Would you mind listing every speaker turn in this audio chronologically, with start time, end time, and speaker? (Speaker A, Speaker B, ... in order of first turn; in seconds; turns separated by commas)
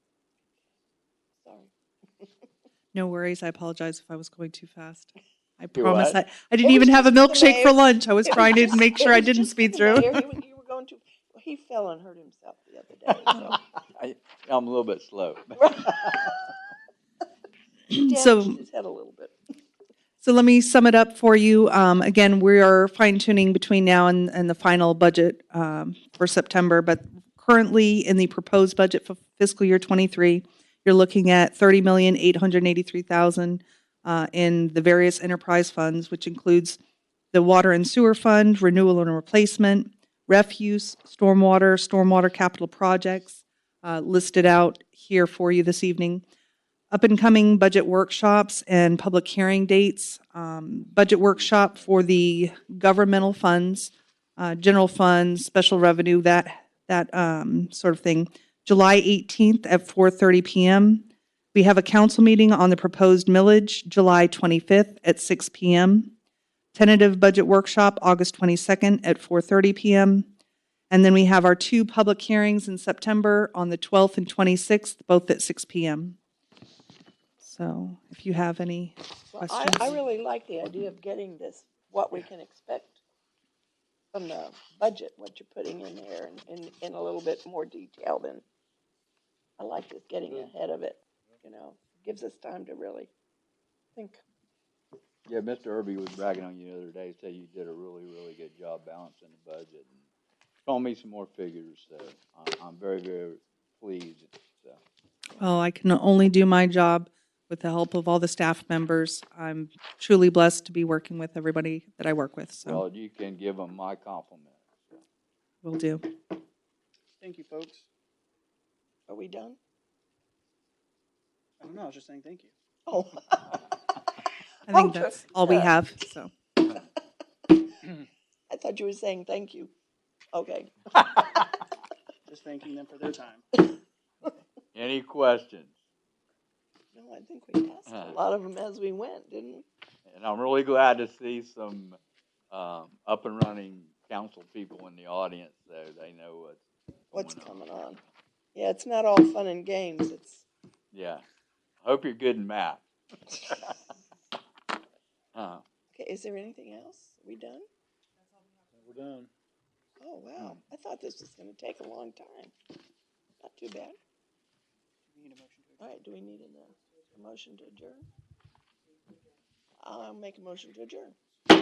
Speaker A: 1.4-2.3, Speaker B: 2.9-10.2, Speaker C: 5.8-6.2, Speaker A: 6.6-13.6, Speaker C: 13.9-16.3, Speaker A: 15.6-16.4, Speaker B: 17.9-18.6, Speaker A: 17.9-19.3, Speaker B: 20.2-36.8, Speaker B: 37.3-46.2, Speaker B: 46.9-66.1, Speaker B: 66.7-70.3, Speaker B: 70.9-76.2, Speaker B: 77.4-80.0, Speaker A: 79.3-83.0, Speaker A: 84.1-88.4, Speaker A: 89.6-93.1, Speaker A: 93.9-94.2, Speaker C: 95.2-100.0, Speaker C: 100.7-104.8, Speaker B: 105.4-112.8, Speaker C: 112.6-115.0, Speaker B: 115.6-116.1, Speaker D: 117.2-117.9, Speaker A: 119.1-119.6, Speaker D: 121.6-122.5, Speaker A: 122.9-123.6, Speaker B: 124.7-126.3, Speaker A: 124.7-125.7, Speaker A: 128.5-129.7, Speaker A: 130.3-131.5, Speaker D: 132.2-133.4, Speaker C: 134.7-135.7, Speaker A: 136.9-139.7, Speaker C: 137.9-138.2, Speaker C: 140.1-142.0, Speaker C: 142.5-147.6, Speaker A: 147.1-148.0, Speaker A: 148.5-150.4, Speaker C: 150.9-151.2, Speaker C: 151.8-152.8, Speaker C: 155.3-155.6, Speaker A: 155.9-157.7, Speaker A: 160.0-162.5, Speaker A: 163.4-164.0, Speaker D: 165.0-166.1, Speaker A: 165.8-168.0, Speaker A: 169.8-171.2